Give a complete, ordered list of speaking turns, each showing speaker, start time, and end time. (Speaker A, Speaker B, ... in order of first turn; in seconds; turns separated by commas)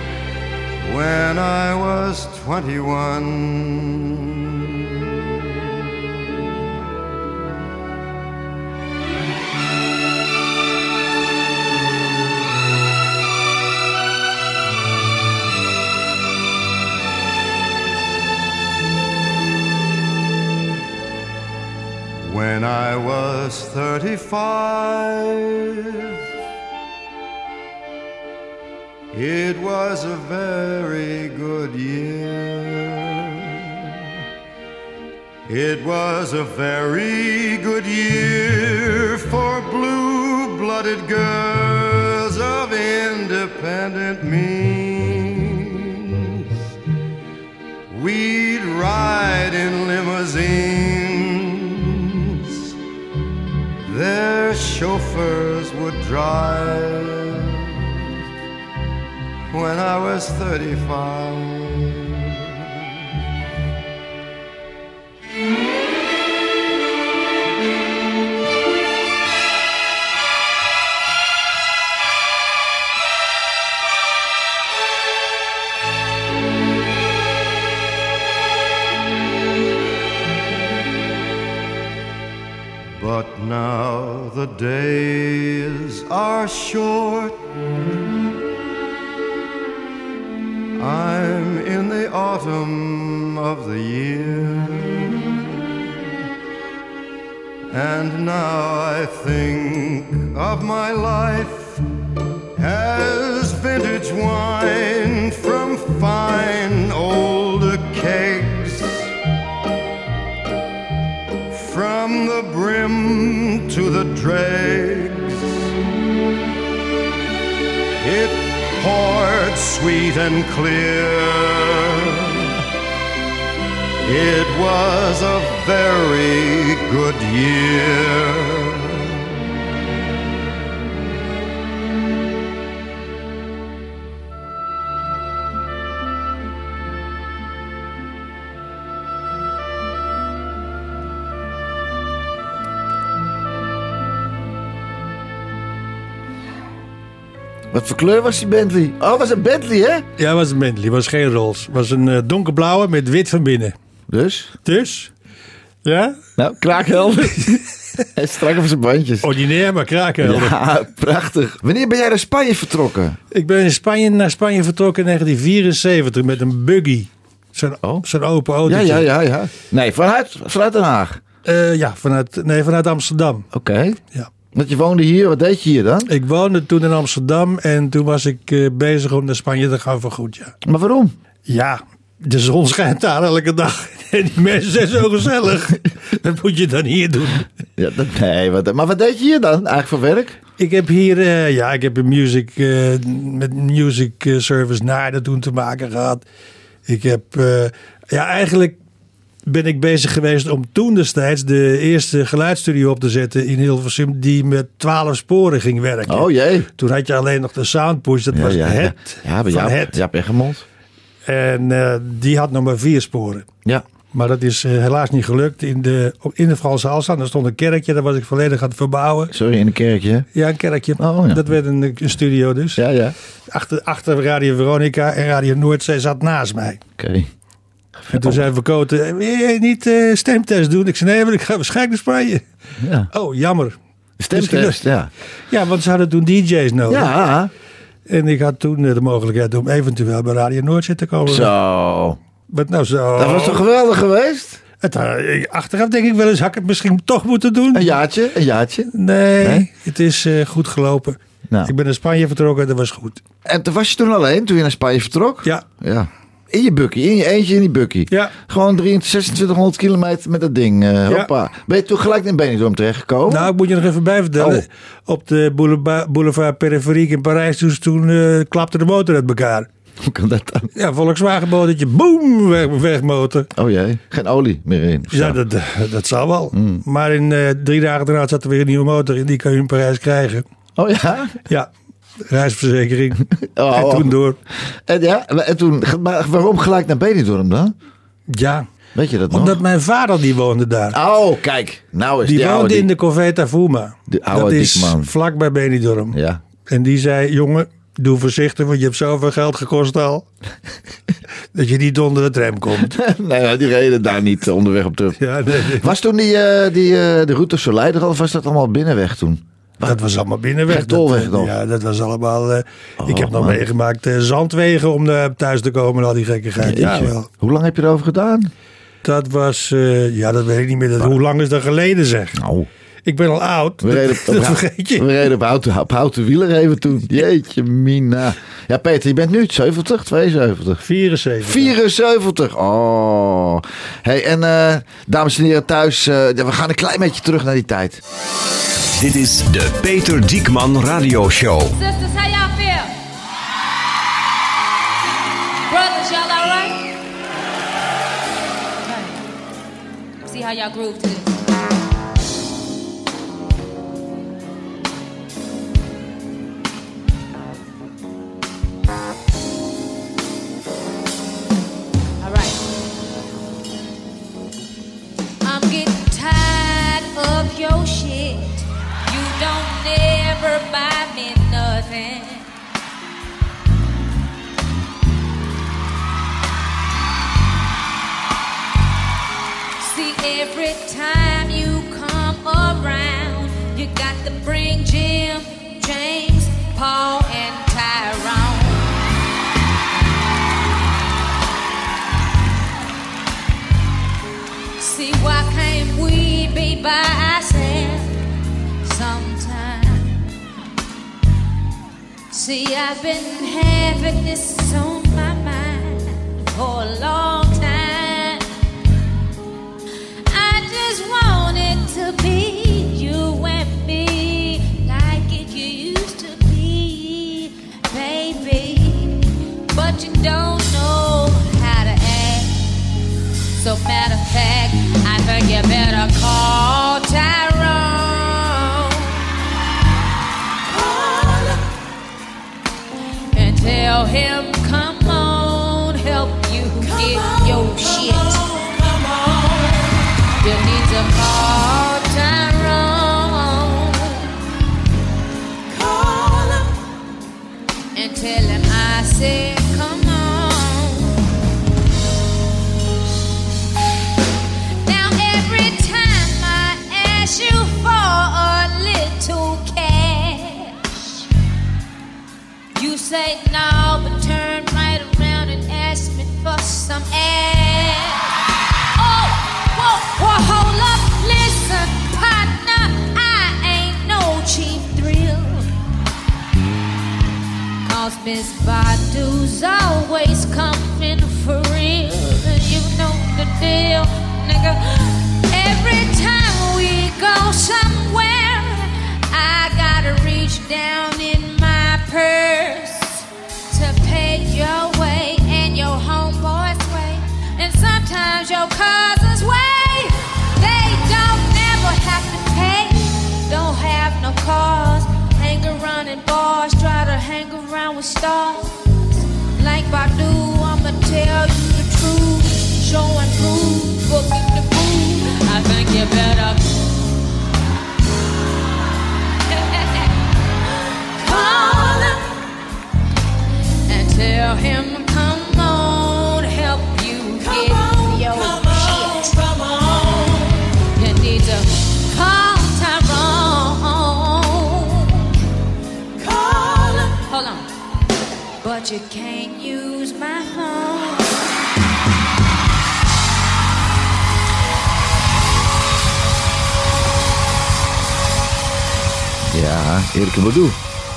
Speaker A: 0.8-5.1, Speaker A: 22.2-26.1, Speaker A: 29.1-33.9, Speaker A: 35.5-46.5, Speaker A: 47.9-52.7, Speaker A: 53.9-58.2, Speaker A: 59.5-62.5, Speaker A: 83.0-87.4, Speaker A: 90.8-95.9, Speaker A: 97.7-101.8, Speaker A: 102.6-109.1, Speaker A: 111.5-115.6, Speaker A: 118.0-122.6, Speaker A: 124.0-129.3, Speaker B: 147.7-150.1, Speaker C: 150.2-153.7, Speaker B: 154.1-154.6, Speaker C: 154.7-155.1, Speaker C: 155.8-156.2, Speaker B: 156.4-159.4, Speaker C: 159.2-160.6, Speaker B: 160.2-163.2, Speaker C: 163.3-169.1, Speaker B: 168.7-171.2, Speaker C: 171.4-173.5, Speaker B: 173.5-174.0, Speaker B: 174.5-176.1, Speaker C: 176.1-180.5, Speaker B: 180.6-181.1, Speaker C: 181.5-187.5, Speaker B: 187.8-190.4, Speaker C: 190.6-196.2, Speaker C: 196.9-198.8, Speaker C: 199.5-210.0, Speaker B: 206.1-206.7, Speaker B: 208.3-210.7, Speaker C: 211.3-213.5, Speaker C: 214.1-219.3, Speaker B: 219.3-220.3, Speaker C: 220.3-222.8, Speaker B: 221.0-221.5, Speaker B: 222.8-223.2, Speaker C: 223.5-226.8, Speaker B: 227.0-227.3, Speaker B: 228.1-228.4, Speaker C: 228.1-232.4, Speaker B: 232.8-233.1, Speaker C: 233.1-233.8, Speaker B: 234.2-235.1, Speaker C: 234.3-234.8, Speaker C: 235.5-237.1, Speaker B: 236.9-237.5, Speaker C: 238.1-241.5, Speaker B: 241.3-242.2, Speaker C: 242.5-243.6, Speaker B: 243.2-244.6, Speaker C: 244.8-247.9, Speaker B: 247.7-249.7, Speaker C: 248.9-253.2, Speaker B: 253.4-263.5, Speaker C: 263.3-269.7, Speaker B: 264.4-264.6, Speaker B: 270.0-270.7, Speaker C: 270.8-273.5, Speaker B: 273.6-275.4, Speaker C: 275.1-280.4, Speaker B: 276.5-276.8, Speaker B: 280.8-281.4, Speaker C: 282.2-284.4, Speaker B: 283.3-284.2, Speaker B: 284.9-287.7, Speaker C: 288.3-288.7, Speaker B: 288.9-289.6, Speaker C: 289.3-291.0, Speaker B: 290.9-292.9, Speaker C: 292.2-300.3, Speaker B: 294.1-295.1, Speaker B: 296.1-296.4, Speaker C: 301.5-302.9, Speaker B: 302.9-310.0, Speaker C: 305.2-305.9, Speaker C: 309.8-317.3, Speaker B: 310.7-311.5, Speaker B: 313.0-313.6, Speaker B: 316.6-318.5, Speaker C: 319.0-322.4, Speaker B: 322.4-322.7, Speaker C: 323.1-325.1, Speaker B: 323.8-330.8, Speaker C: 330.8-331.8, Speaker B: 331.4-338.0, Speaker D: 338.9-341.7, Speaker E: 341.7-342.9, Speaker E: 345.7-346.8, Speaker E: 348.9-349.2, Speaker E: 350.2-351.3, Speaker E: 362.2-362.6, Speaker E: 365.4-372.5, Speaker E: 379.8-388.9, Speaker E: 394.8-398.1, Speaker E: 398.8-400.2, Speaker E: 402.3-408.5, Speaker E: 410.3-422.6, Speaker E: 423.6-429.2, Speaker E: 430.7-431.6, Speaker E: 433.3-438.8, Speaker E: 440.4-444.3, Speaker E: 445.7-446.7, Speaker E: 447.9-451.2, Speaker E: 454.9-461.2, Speaker E: 462.8-468.4, Speaker E: 469.0-475.7, Speaker E: 477.8-508.8, Speaker E: 509.6-516.9, Speaker E: 519.5-520.1, Speaker E: 521.2-522.3, Speaker E: 523.9-535.4, Speaker E: 536.3-537.7, Speaker E: 538.6-541.5, Speaker B: 549.5-550.8